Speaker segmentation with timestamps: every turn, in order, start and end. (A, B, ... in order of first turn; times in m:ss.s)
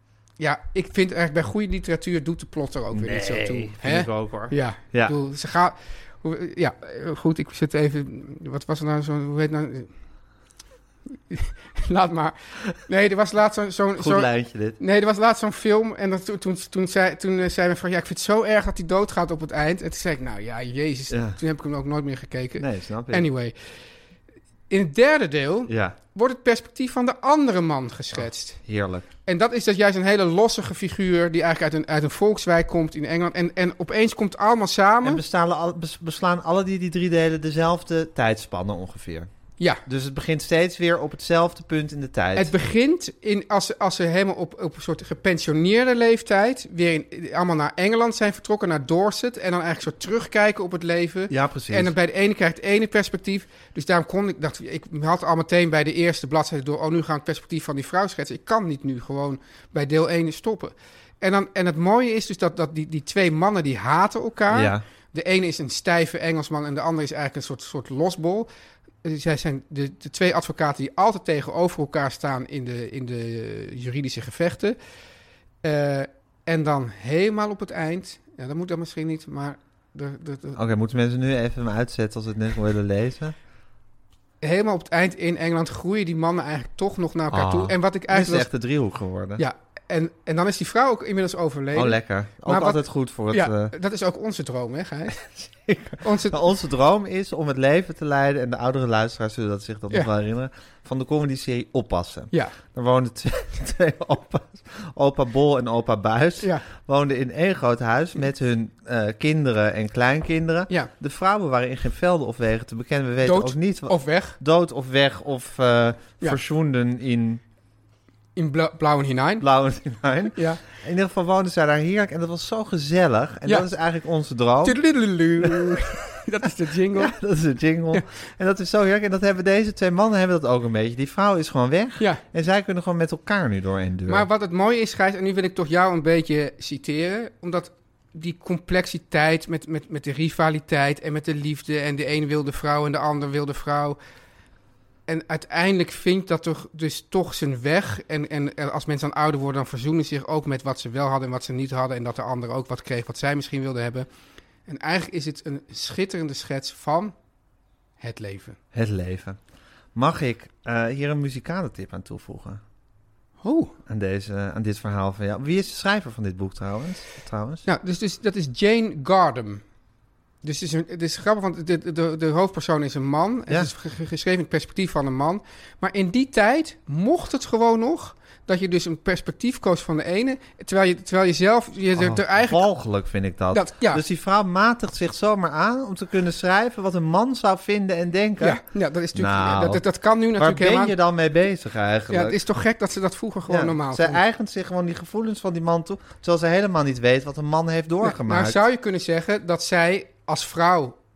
0:00.4-0:09.9 A
0:02.9-0:05.2 B
0:11.3-0:23.5 A
0:14.0-0:14.8 B
0:21.1-0:21.4 B
0:22.6-0:23.3 B
0:24.7-0:28.6 A
0:25.7-0:26.0 B
0:28.2-0:29.1 B
0:29.3-0:35.2 A
0:35.0-0:39.3 B
0:39.9-0:42.5 B
0:42.4-1:08.5 A
0:51.3-0:51.9 B
1:04.5-1:04.8 B
1:09.0-1:14.8 A
1:15.6-1:20.6 A
1:20.6-1:23.4 B
1:24.4-1:28.5 A
1:27.3-1:29.4 B
1:29.4-1:35.4 A
1:31.7-1:33.7 B
1:35.7-1:57.4 B
1:36.0-1:36.4 A
1:46.4-1:46.6 A
1:53.2-1:54.4 A
1:58.4-1:59.4 A
1:59.4-2:04.8 B
2:00.3-2:00.6 A
2:04.6-2:07.2 A
2:05.4-2:05.8 B
2:06.9-2:14.3 B
2:14.1-2:24.0 A
2:25.1-2:34.1 A
2:34.7-2:37.1 A
2:38.0-2:38.6 A
2:38.7-2:39.4 B
2:40.0-2:42.6 B
2:43.4-2:43.7 A
2:43.9-2:47.7 B
2:47.6-2:49.6 A
2:50.4-3:02.6 A
3:02.0-3:08.6 B
3:03.5-3:04.0 A
3:08.4-3:11.0 A
3:09.2-3:09.8 B
3:10.4-3:12.4 B
3:12.1-3:14.2 A
3:13.5-3:18.6 B
3:18.0-3:21.0 A